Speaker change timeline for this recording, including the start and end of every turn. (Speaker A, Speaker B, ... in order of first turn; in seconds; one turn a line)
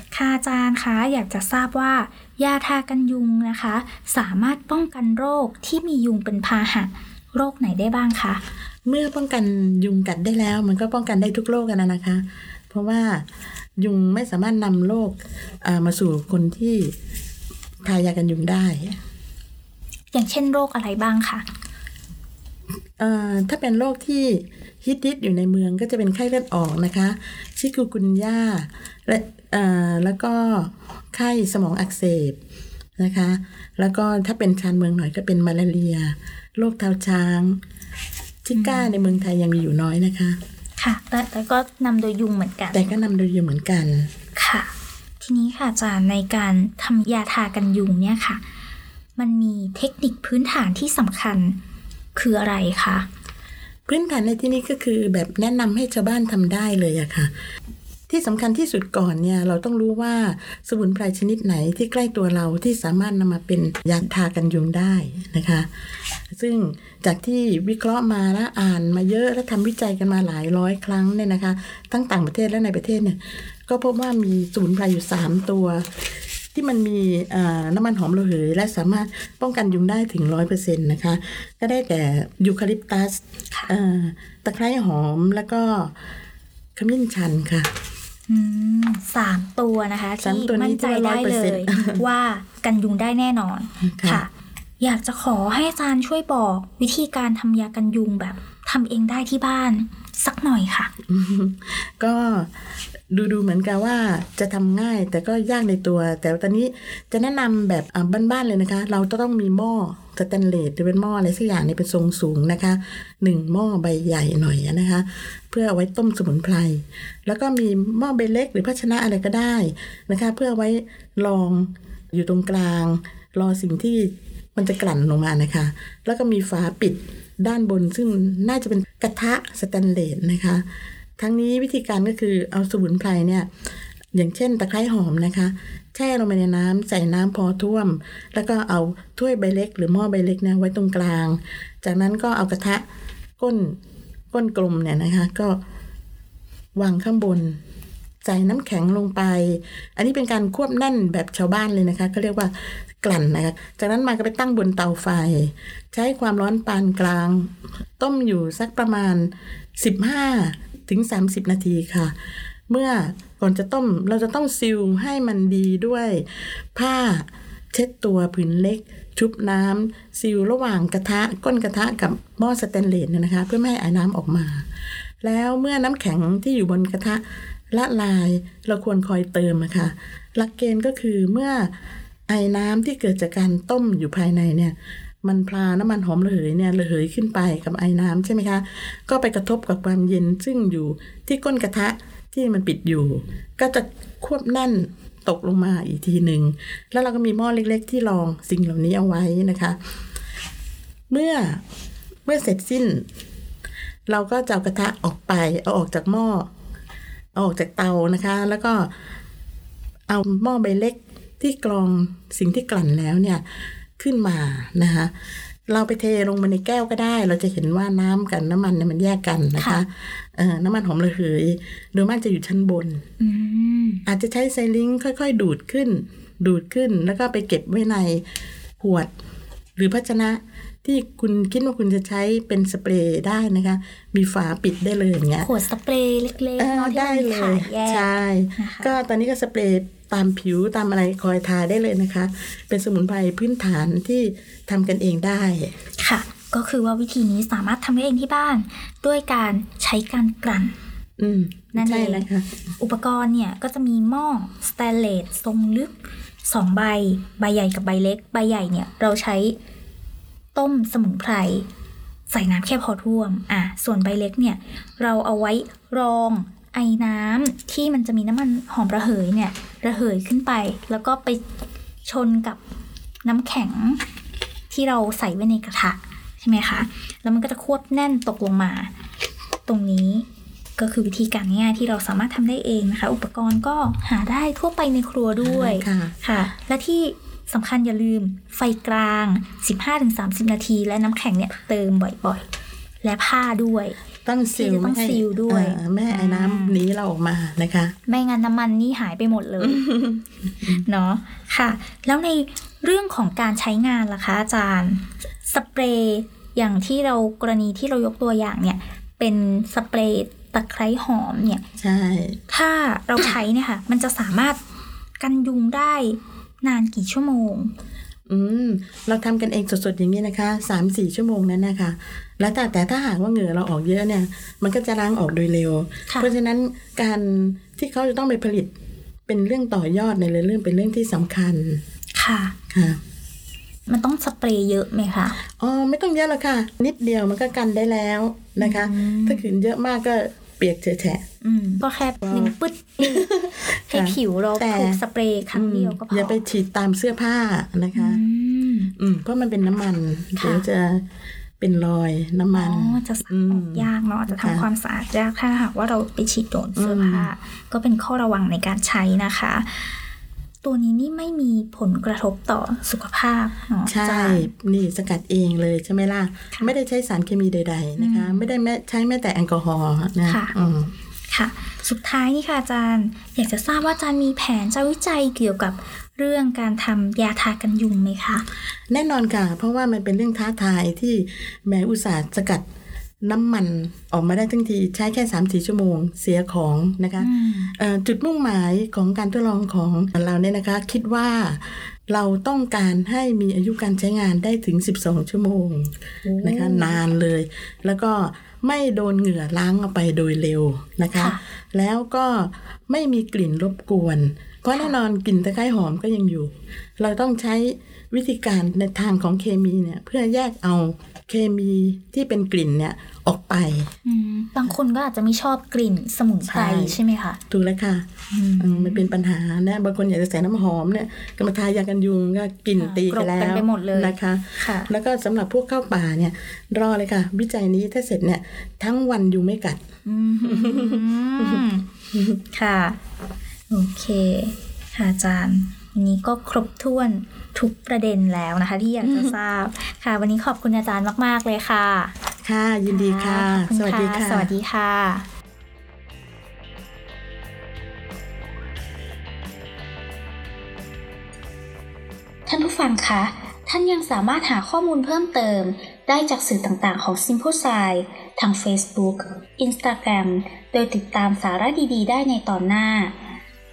Speaker A: 0.1-8.4
Speaker B: 8.8-13.2
Speaker B: 13.8-16.9
Speaker B: 17.9-19.0
Speaker A: 20.1-21.4
Speaker B: 23.0-32.4
Speaker B: 33.0-37.6
Speaker B: 38.5-40.4
Speaker A: 38.5-39.0
Speaker A: 40.8-42.9
Speaker B: 42.7-44.1
Speaker A: 44.4-48.4
Speaker A: 49.2-51.6
Speaker A: 52.1-53.1
Speaker B: 53.9-57.3
Speaker B: 58.1-65.7
Speaker B: 66.3-75.9
Speaker B: 76.5-85.9
Speaker B: 86.8-87.7
Speaker A: 88.3-94.3
Speaker B: 90.2-92.0
Speaker B: 93.8-94.2
Speaker A: 94.8-100.9
Speaker B: 101.1-102.5
Speaker B: 103.1-130.6
Speaker B: 131.2-133.5
Speaker B: 134.1-142.8
Speaker B: 143.4-143.8
Speaker B: 144.3-145.6
Speaker B: 146.8-147.6
Speaker B: 148.2-162.1
Speaker B: 162.7-174.7
Speaker B: 175.2-177.2
Speaker B: 177.7-181.7
Speaker B: 182.3-199.8
Speaker B: 201.1-201.6
Speaker B: 202.3-203.0
Speaker B: 204.1-206.5
Speaker B: 207.3-208.9
Speaker B: 210.1-213.4
Speaker B: 214.0-215.1
Speaker B: 215.7-223.0
Speaker A: 219.6-219.8
Speaker A: 223.2-224.0
Speaker B: 224.1-228.2
Speaker B: 228.8-229.1
Speaker B: 229.8-235.5
Speaker A: 235.4-238.9
Speaker B: 236.6-245.7
Speaker A: 246.0-250.7
Speaker B: 251.2-252.5
Speaker A: 251.7-252.3
Speaker A: 252.8-255.9
Speaker A: 256.4-259.6
Speaker A: 260.6-261.6
Speaker A: 262.3-271.4
Speaker A: 272.1-272.6
Speaker A: 273.2-274.0
Speaker A: 274.7-278.9
Speaker A: 279.7-280.3
Speaker A: 280.8-292.5
Speaker B: 285.4-286.2
Speaker A: 293.0-294.0
Speaker B: 294.3-297.9
Speaker A: 294.5-296.8
Speaker A: 298.1-299.8
Speaker B: 299.6-300.8
Speaker A: 300.6-311.6
Speaker B: 311.8-312.4
Speaker A: 312.5-314.6
Speaker A: 315.2-317.7
Speaker B: 318.3-328.7
Speaker B: 329.3-331.8
Speaker A: 332.1-332.5
Speaker B: 332.7-333.0
Speaker A: 333.9-335.4
Speaker B: 335.6-341.2
Speaker A: 338.6-339.5
Speaker A: 341.4-343.3
Speaker B: 342.2-345.0
Speaker A: 343.9-346.4
Speaker B: 345.5-348.2
Speaker A: 347.9-348.9
Speaker B: 349.0-351.0
Speaker A: 350.4-350.6
Speaker B: 351.6-354.7
Speaker A: 352.5-359.9
Speaker B: 356.8-357.3
Speaker A: 360.6-364.5
Speaker B: 363.9-370.9
Speaker A: 368.0-368.5
Speaker A: 370.3-370.5
Speaker A: 371.3-378.4
Speaker B: 378.9-382.6
Speaker B: 383.2-413.9
Speaker A: 387.2-387.7
Speaker A: 396.2-397.0
Speaker A: 401.1-401.4
Speaker A: 414.1-417.4
Speaker B: 416.4-417.0
Speaker B: 417.5-418.1
Speaker A: 418.3-419.1
Speaker B: 418.6-429.8
Speaker A: 422.8-424.9
Speaker A: 430.1-431.9
Speaker B: 430.4-432.4
Speaker A: 432.5-433.0
Speaker A: 433.7-442.1
Speaker B: 439.0-439.4
Speaker B: 442.4-444.5
Speaker A: 442.9-445.3
Speaker A: 452.5-463.1